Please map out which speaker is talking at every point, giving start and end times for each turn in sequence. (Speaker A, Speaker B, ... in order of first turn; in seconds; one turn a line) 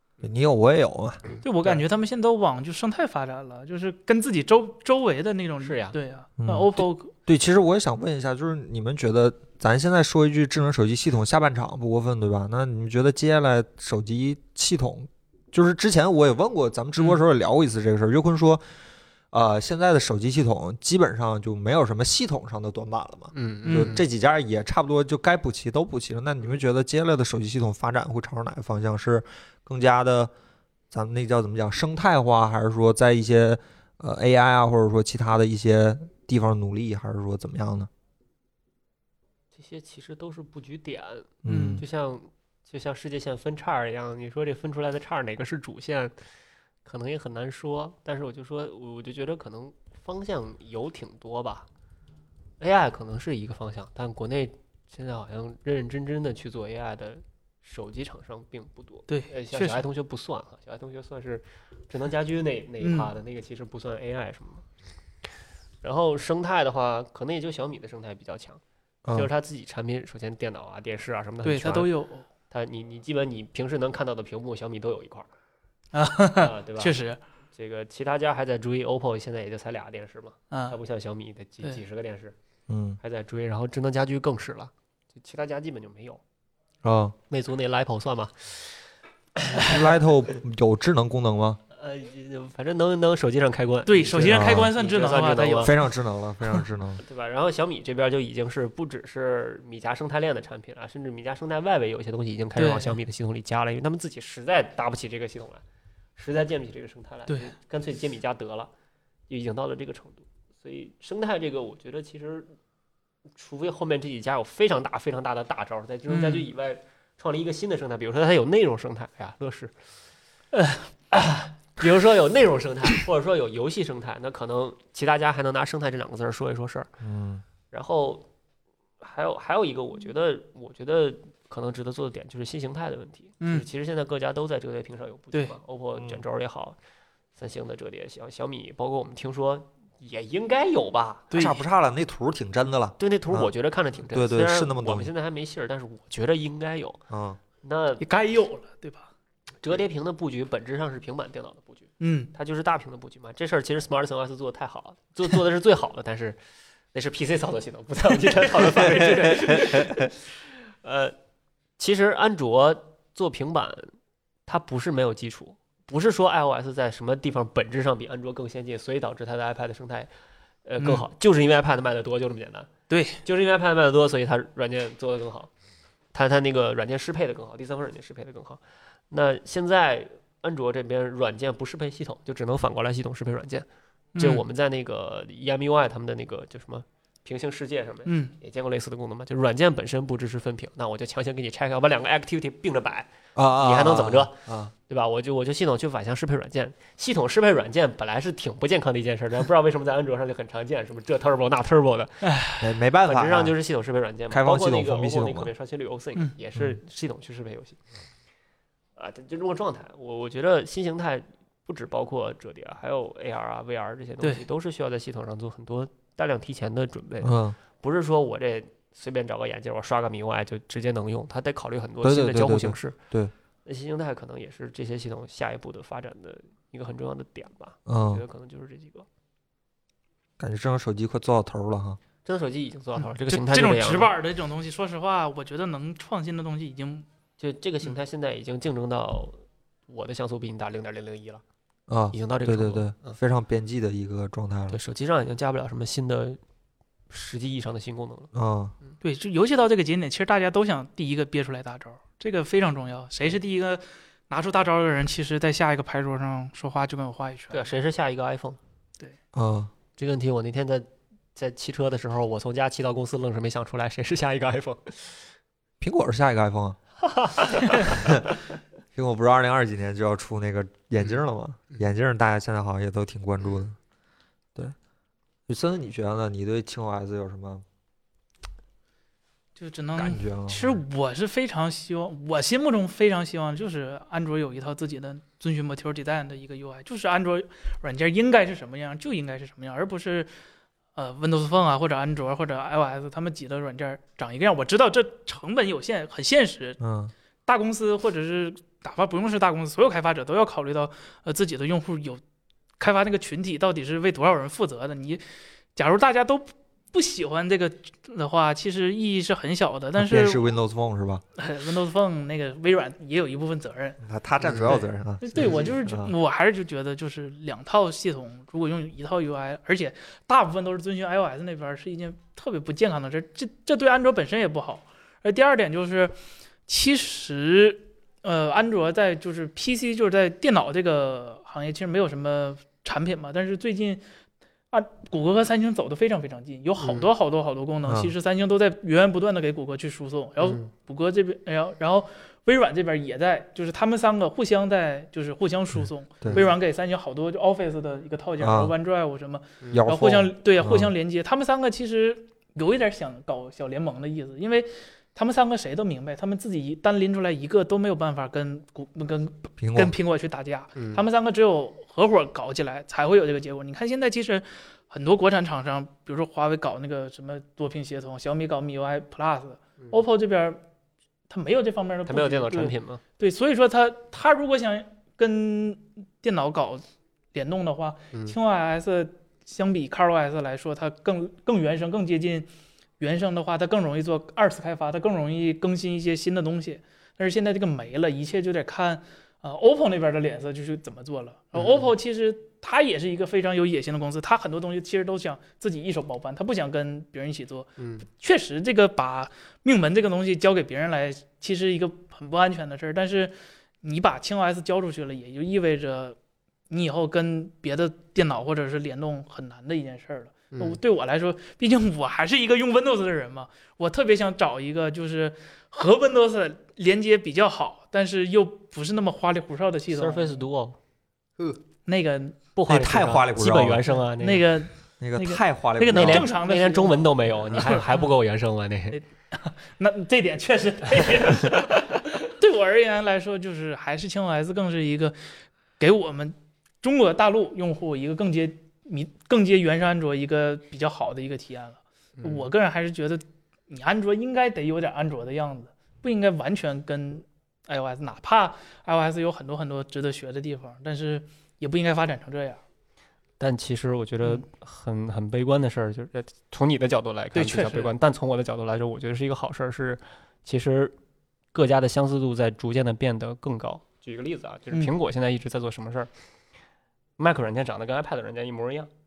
Speaker A: 0.2-1.2
Speaker B: 1.3-1.8
Speaker C: 1.4-7.1
Speaker B: 5.6-6.0
Speaker A: 6.4-18.6
Speaker A: 19.3-30.3
Speaker B: 23.3-24.0
Speaker C: 23.6-24.0
Speaker A: 30.9-37.9
Speaker B: 39.5-46.1
Speaker A: 41.4-41.8
Speaker C: 41.5-41.8
Speaker B: 46.9-51.7
Speaker B: 52.6-64.7
Speaker C: 59.1-59.9
Speaker C: 62.8-63.1
Speaker B: 65.8-68.6
Speaker A: 69.0-69.3
Speaker B: 69.1-71.9
Speaker C: 71.4-72.3
Speaker B: 72.5-75.3
Speaker C: 75.9-77.2
Speaker B: 76.4-77.0
Speaker B: 77.5-82.4
Speaker C: 80.5-80.8
Speaker A: 82.7-83.0
Speaker B: 83.0-86.2
Speaker A: 86.8-87.2
Speaker B: 87.3-88.8
Speaker B: 89.4-89.8
Speaker A: 89.5-91.6
Speaker B: 91.7-95.7
Speaker C: 93.9-95.9
Speaker A: 94.2-94.7
Speaker A: 95.6-97.0
Speaker B: 97.0-105.6
Speaker C: 102.6-103.0
Speaker B: 106.2-108.7
Speaker C: 107.3-107.5
Speaker B: 109.3-112.5
Speaker B: 113.4-119.7
Speaker C: 116.1-116.5
Speaker C: 120.5-120.9
Speaker B: 121.1-126.9
Speaker A: 127.0-127.4
Speaker B: 127.7-128.3
Speaker B: 129.0-136.8
Speaker C: 133.4-133.7
Speaker A: 136.0-136.2
Speaker B: 137.4-141.3
Speaker C: 141.3-141.6
Speaker A: 141.3-143.5
Speaker B: 143.0-147.0
Speaker A: 144.1-145.1
Speaker A: 147.1-147.4
Speaker B: 147.6-148.0
Speaker C: 148.0-149.1
Speaker B: 149.6-156.4
Speaker C: 152.0-152.3
Speaker B: 156.9-161.2
Speaker A: 158.8-160.1
Speaker B: 161.8-163.9
Speaker B: 164.5-170.1
Speaker B: 170.7-172.7
Speaker C: 172.9-173.2
Speaker B: 173.2-175.5
Speaker B: 176.1-183.7
Speaker C: 184.2-184.4
Speaker B: 184.2-202.3
Speaker C: 188.1-188.3
Speaker A: 193.3-194.7
Speaker C: 202.2-202.7
Speaker A: 202.6-203.6
Speaker B: 203.0-207.8
Speaker A: 204.3-205.5
Speaker B: 209.0-223.0
Speaker C: 214.2-214.5
Speaker A: 217.2-217.6
Speaker A: 222.0-223.3
Speaker B: 223.7-229.1
Speaker A: 227.9-228.2
Speaker A: 230.4-232.0
Speaker B: 232.2-234.1
Speaker C: 233.3-237.1
Speaker B: 237.4-241.4
Speaker A: 241.9-244.8
Speaker B: 242.1-243.2
Speaker B: 244.7-246.4
Speaker B: 247.1-248.3
Speaker A: 248.3-248.8
Speaker C: 249.0-257.7
Speaker B: 257.5-258.6
Speaker A: 259.3-259.7
Speaker B: 260.0-265.2
Speaker A: 265.8-266.8
Speaker B: 267.0-268.1
Speaker A: 268.0-268.2
Speaker A: 268.9-273.8
Speaker A: 275.5-277.6
Speaker C: 279.6-290.3
Speaker A: 280.0-280.8
Speaker C: 290.9-296.8
Speaker A: 296.8-297.1
Speaker C: 297.5-302.2
Speaker C: 302.8-305.2
Speaker C: 305.8-310.5
Speaker A: 310.0-311.2
Speaker C: 311.4-314.0
Speaker A: 314.0-316.1
Speaker B: 314.4-314.7
Speaker C: 314.6-326.2
Speaker B: 315.4-315.7
Speaker C: 326.7-334.0
Speaker C: 334.7-370.6
Speaker B: 336.8-337.1
Speaker A: 337.9-338.1
Speaker B: 340.4-340.7
Speaker A: 348.4-348.7
Speaker A: 349.7-350.9
Speaker A: 359.6-359.9
Speaker B: 360.8-361.0
Speaker C: 371.3-382.5
Speaker B: 372.1-373.0
Speaker C: 383.0-406.2
Speaker B: 391.6-391.9
Speaker B: 397.8-398.1
Speaker C: 406.7-420.4
Speaker B: 410.5-410.8
Speaker B: 419.9-420.8
Speaker C: 421.9-422.4
Speaker B: 422.6-424.5
Speaker A: 422.7-423.9
Speaker C: 424.1-427.9
Speaker A: 425.0-426.3
Speaker B: 425.9-429.0
Speaker C: 428.9-452.6
Speaker B: 442.2-442.5
Speaker B: 453.4-460.9
Speaker C: 457.3-457.9
Speaker B: 461.5-466.1
Speaker B: 467.2-468.9